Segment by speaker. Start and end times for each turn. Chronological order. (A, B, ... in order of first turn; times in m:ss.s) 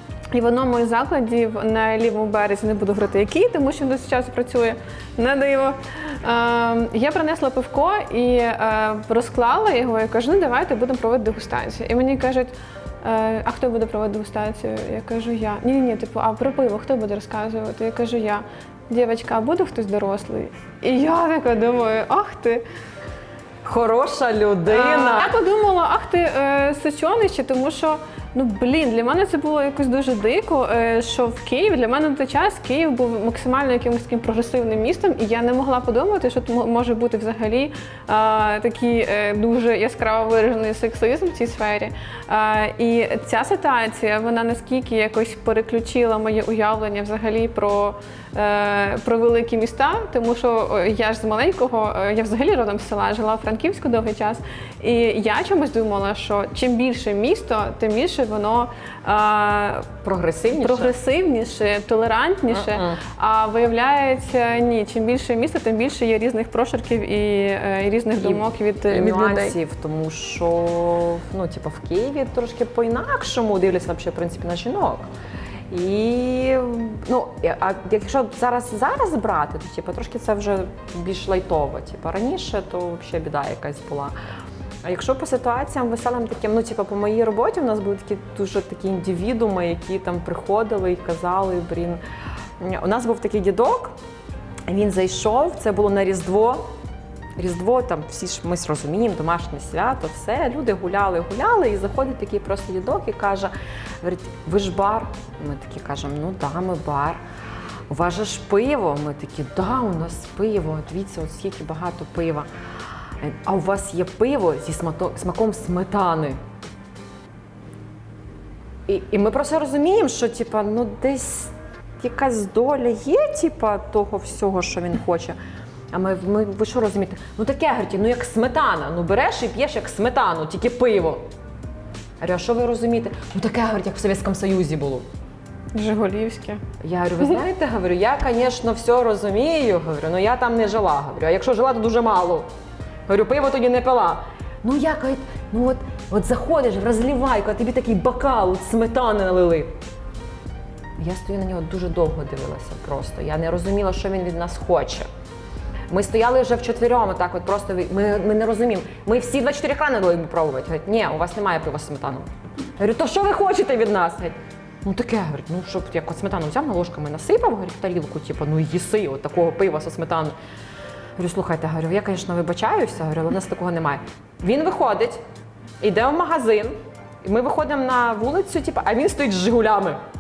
0:00.3-0:22.6 A
0:23.6-0:25.3 B
0:24.7-0:59.9 A
1:00.0-1:00.9 B
1:00.5-1:09.5 A
1:02.5-1:03.0 B
1:08.2-1:15.1 B
1:15.7-1:24.1 B
1:24.8-1:32.0 B
1:32.6-1:34.0 B
1:34.7-1:36.7 B
1:37.4-1:47.2 B
1:47.9-1:52.5 B
1:53.2-1:56.4 B
1:58.9-2:05.4 B
2:05.9-2:11.2 B
2:12.2-2:15.1 B
2:15.7-2:16.6 A
2:16.8-2:22.5 B
2:23.1-2:29.7 B
2:31.0-2:35.1 B
2:35.9-2:50.3 B
2:51.2-2:55.2 B
2:55.8-3:00.0 B